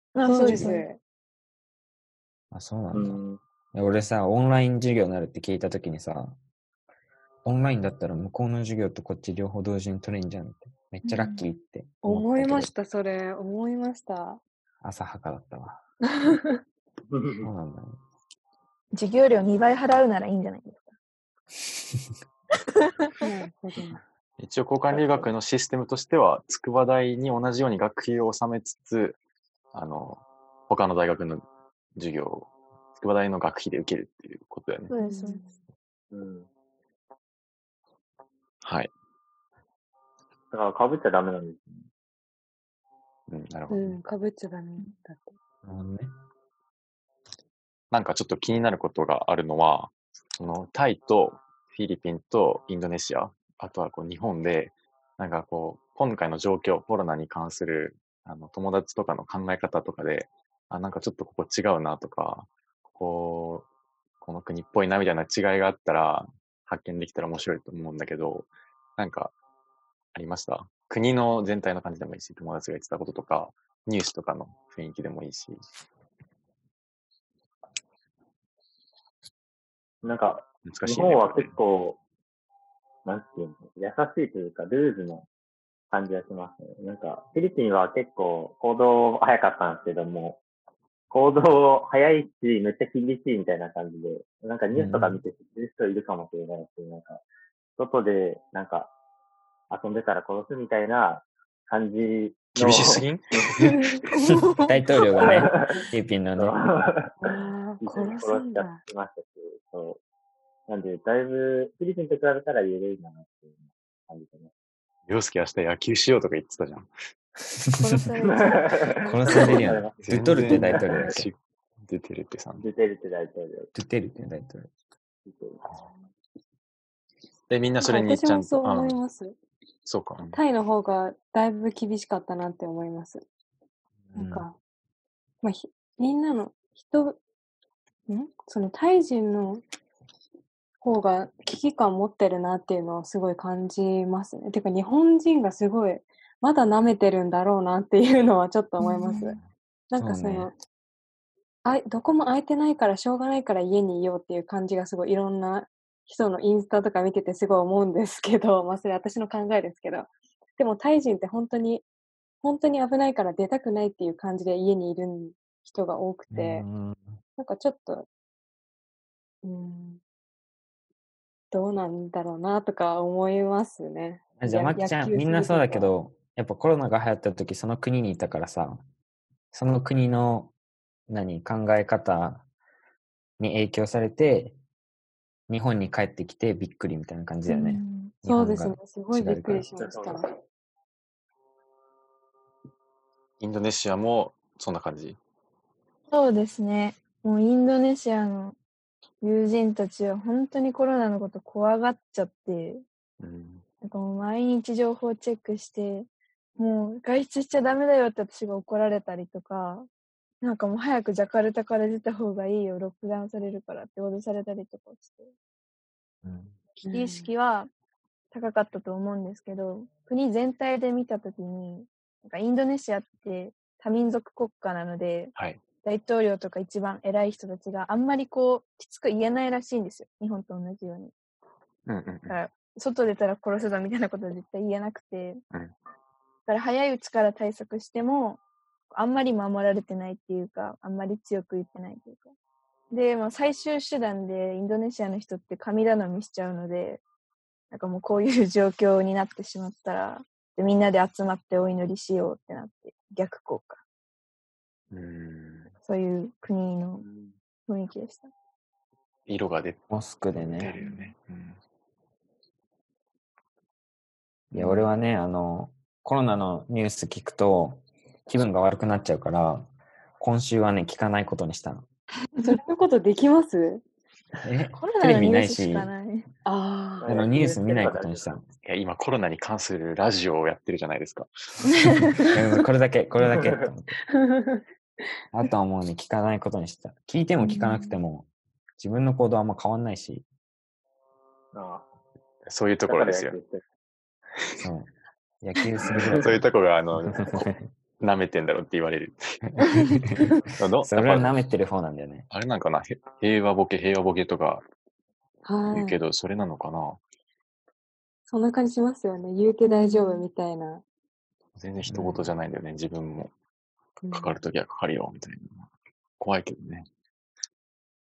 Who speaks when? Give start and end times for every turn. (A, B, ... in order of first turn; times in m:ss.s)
0:00.1-0:00.8 A
0:00.2-0:01.0 B
0:00.4-0:00.8 C
0:02.5-0:03.2 C
0:02.9-0:03.4 D
0:03.7-0:06.4 C
0:07.4-0:12.7 C
0:11.0-0:11.4 A
0:12.0-0:14.4 B
0:14.8-0:15.8 C
0:17.1-0:17.5 D
0:17.4-0:18.0 C
0:18.9-0:20.9 A
0:23.2-0:24.0 B
0:24.4-0:29.2 E
0:24.9-0:25.3 D
0:29.7-0:34.9 E
0:34.9-0:35.4 A
0:35.0-0:35.5 B
0:36.1-0:36.5 D
0:38.6-0:38.9 E
0:40.5-0:41.9 D
0:43.3-0:44.0 E
0:43.7-0:45.3 B
0:45.6-0:46.1 C
0:47.9-1:03.7 E
1:04.2-1:09.3 E
1:10.1-1:15.6 E
1:20.0-1:22.0 D
1:20.6-1:21.6 E
1:23.0-1:25.3 D
1:25.9-1:30.4 D
1:31.1-1:37.2 D
1:34.7-1:35.2 C
1:37.8-1:38.9 D
1:39.7-1:43.7 D
1:42.5-1:43.8 E
1:44.2-1:44.6 A
1:44.6-1:46.6 C
1:45.2-1:47.2 D
1:47.2-1:48.8 B
1:47.8-1:50.0 D
1:50.7-1:54.5 D
1:55.1-1:56.9 E
1:57.8-1:58.7 A
1:58.2-2:01.2 D
1:59.0-2:01.3 C
2:00.0-2:02.6 E
2:02.6-2:03.7 D
2:03.7-2:04.7 C
2:05.2-2:05.6 D
2:07.5-2:09.0 E
2:07.8-2:09.4 B
2:09.8-2:10.4 E
2:10.3-2:13.2 B
2:14.1-2:14.4 C
2:14.1-2:14.5 B
2:15.4-2:17.2 B
2:18.1-2:19.6 B
2:20.8-2:29.4 B
2:28.8-2:29.4 A
2:29.9-2:30.5 B
2:29.9-2:30.5 C
2:31.6-2:41.8 B
2:42.4-2:46.7 B
2:46.3-2:47.2 C
2:47.4-2:48.1 B
2:49.4-2:50.0 B
2:51.5-2:55.9 B
2:54.4-2:58.8 C
2:59.5-3:00.5 C
3:01.1-3:02.4 C
3:03.4-3:04.6 C
3:05.5-3:09.7 C
3:07.5-3:08.1 A
3:08.2-3:10.3 B
3:09.8-3:10.2 D
3:13.4-3:15.2 E
3:16.1-3:18.6 A
3:19.2-3:22.8 A
3:23.2-3:23.6 E
3:23.8-3:29.9 A
3:30.4-3:35.3 A
3:36.2-3:36.6 C
3:36.8-3:37.7 A
3:36.8-3:37.3 B
3:38.3-3:51.1 A
3:45.3-3:45.6 E
3:51.8-3:52.4 E
3:52.3-3:55.4 A
3:56.5-3:58.4 A
3:58.9-4:02.3 A
4:02.9-4:07.0 A
4:07.7-4:13.8 A
4:14.9-4:15.7 E
4:15.8-4:17.0 A
4:17.0-4:17.3 D
4:17.7-4:18.3 A
4:19.3-4:21.6 E
4:19.9-4:20.8 C
4:24.5-4:31.8 C
4:24.6-4:24.9 B
4:32.4-4:33.8 B
4:34.4-4:35.9 C
4:34.7-4:36.3 A
4:36.4-4:37.1 B
4:37.0-4:38.4 D
4:37.0-4:38.5 C
4:38.6-4:41.3 E
4:41.8-4:42.2 A
4:42.3-4:44.0 C
4:43.3-4:43.7 D
4:44.1-4:44.6 B
4:45.3-4:50.2 C
4:47.4-4:48.0 A
4:51.5-4:51.9 D
4:52.5-4:53.4 E
4:52.9-4:53.6 D
4:54.4-4:54.6 E
4:54.6-4:56.4 C
4:56.0-4:59.4 E
4:57.1-4:57.6 C
4:59.4-5:02.3 C
5:00.5-5:01.4 E
5:02.3-5:04.6 E
5:05.4-5:06.0 B
5:05.7-5:07.0 E
5:08.3-5:10.8 B
5:09.6-5:10.3 A
5:11.6-5:13.3 E
5:11.9-5:12.3 C
5:14.0-5:14.4 B
5:14.1-5:15.7 E
5:16.2-5:16.9 E